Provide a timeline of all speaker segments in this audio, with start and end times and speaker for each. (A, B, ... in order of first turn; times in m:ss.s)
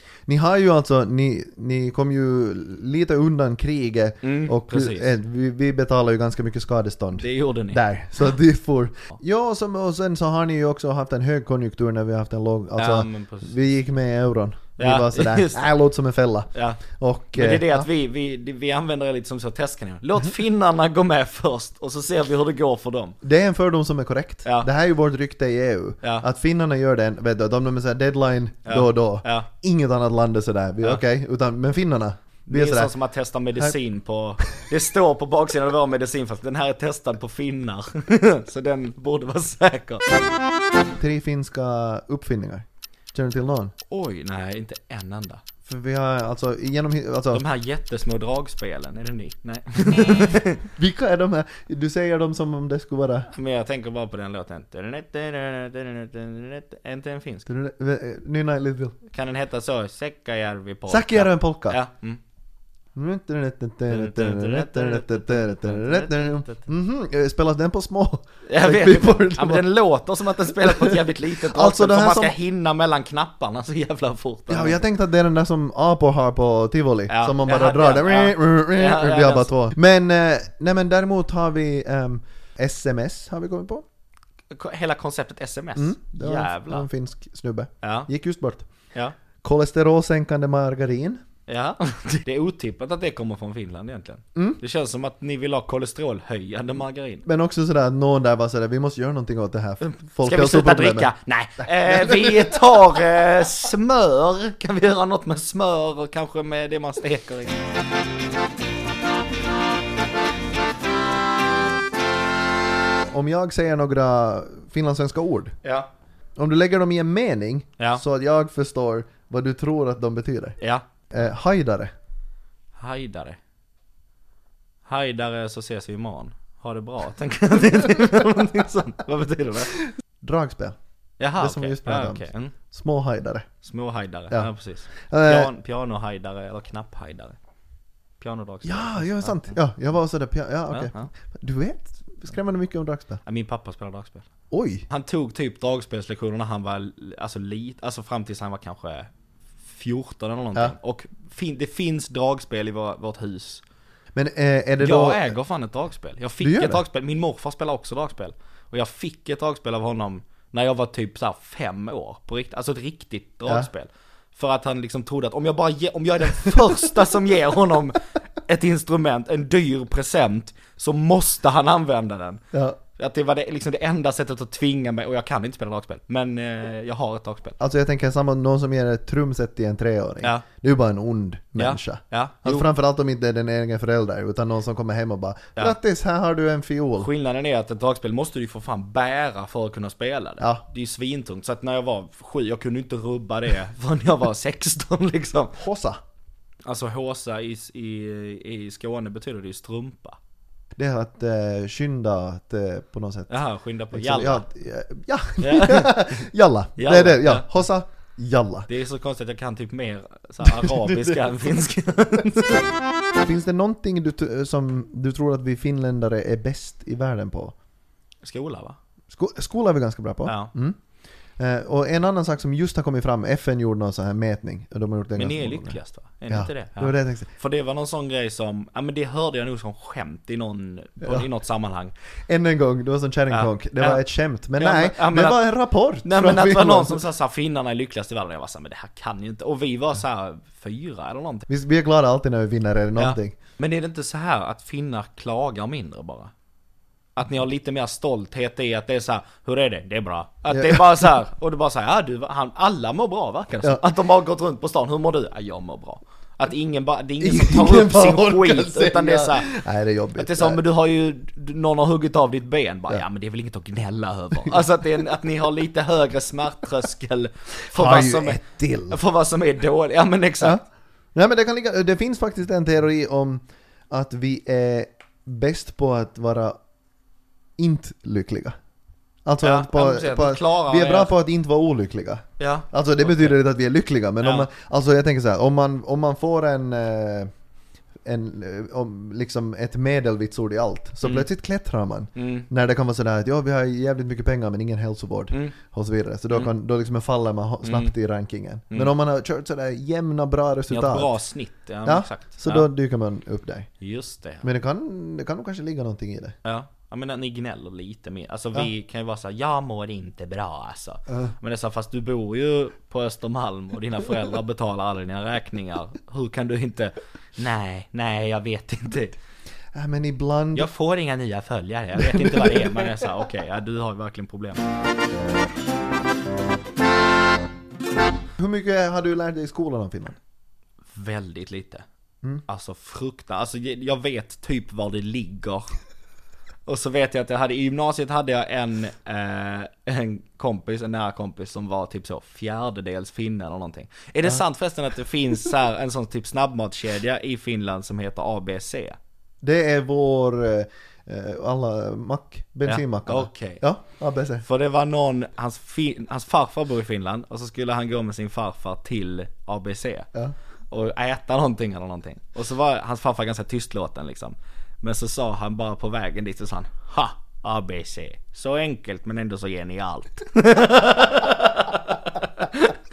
0:00.3-0:17.9 A
0:04.2-0:05.1 B
0:07.2-0:07.8 B
0:12.8-0:13.5 B
0:14.8-0:15.6 B
0:16.5-0:16.8 B
0:17.3-0:23.1 B
0:23.2-0:32.9 A
0:28.6-0:29.5 B
0:32.5-0:40.0 B
0:41.0-0:43.7 A
0:43.9-0:45.4 B
0:45.6-0:47.4 A
0:47.3-0:50.7 B
0:49.9-0:53.3 A
0:53.3-0:57.5 B
0:57.5-0:58.9 A
0:59.1-1:02.2 B
1:00.9-1:01.8 A
1:02.9-1:09.7 A
1:03.9-1:06.7 B
1:08.5-1:14.8 B
1:10.4-1:12.4 A
1:14.5-1:23.8 A
1:17.1-1:19.5 B
1:24.5-1:26.9 B
1:25.8-1:28.6 A
1:27.8-1:28.1 B
1:29.4-1:31.2 A
1:31.5-1:37.2 B
1:37.2-1:43.0 A
1:39.8-1:47.6 B
1:53.1-1:55.5 A
1:55.6-1:55.9 B
1:56.4-2:00.6 A
2:00.6-2:00.8 B
2:01.1-2:01.9 A
2:02.8-2:03.4 B
2:04.8-2:09.7 B
2:09.7-2:10.8 A
2:11.2-2:12.5 B
2:11.4-2:13.5 A
2:13.6-2:17.4 B
2:14.3-2:15.5 A
2:18.2-2:19.6 B
2:18.6-2:23.2 A
2:20.7-2:21.1 B
2:23.2-2:24.2 B
2:24.5-2:24.8 A
2:24.9-2:29.1 B
2:29.6-2:33.6 B
2:34.1-2:35.3 A
2:34.8-2:52.4 B
2:36.4-2:36.8 A
2:52.5-2:52.8 A
2:52.9-2:57.6 B
2:57.6-3:07.1 A
3:01.6-3:02.7 B
3:07.0-3:15.6 B
3:15.6-3:16.0 A
3:16.6-3:20.2 B
3:20.8-3:23.3 A
3:23.3-3:24.4 B
3:23.9-3:28.7 A
3:25.4-3:26.0 B
3:26.8-3:27.5 B
3:28.7-3:32.7 B
3:30.4-3:31.2 A
3:33.2-3:37.5 A
3:38.2-3:38.8 B
3:39.1-3:40.8 A
3:40.2-3:40.5 B
3:41.4-3:45.8 A
3:45.2-3:51.9 B
3:46.3-3:47.3 A
3:52.3-3:57.0 A
3:53.3-3:54.0 B
3:54.6-3:55.5 B
3:56.0-4:01.5 B
4:01.5-4:03.4 A
4:03.0-4:06.3 B
4:07.2-4:19.5 B
4:10.5-4:11.1 A
4:17.2-4:20.6 A
4:20.2-4:30.6 B
4:27.7-4:29.0 A
4:31.1-4:36.5 A
4:37.6-4:38.5 A
4:39.2-4:47.3 A
4:39.4-4:41.1 B
4:42.4-4:43.4 B
4:44.2-4:44.5 B
4:48.0-5:01.1 A
4:52.2-4:52.5 B
4:57.6-4:57.9 B
5:00.7-5:02.7 B
5:01.8-5:03.7 A
5:03.8-5:04.5 B
5:04.4-5:06.3 A
5:06.4-5:19.2 B
5:11.1-5:11.3 A
5:19.7-5:20.7 A
5:20.5-5:24.6 B
5:22.0-5:22.9 A
5:28.4-5:30.2 A
5:30.9-5:31.8 B
5:32.4-5:35.7 B
5:36.6-5:49.0 B
5:49.4-5:54.4 A
5:52.6-5:53.6 B
5:54.4-6:00.1 B
6:00.7-6:12.8 B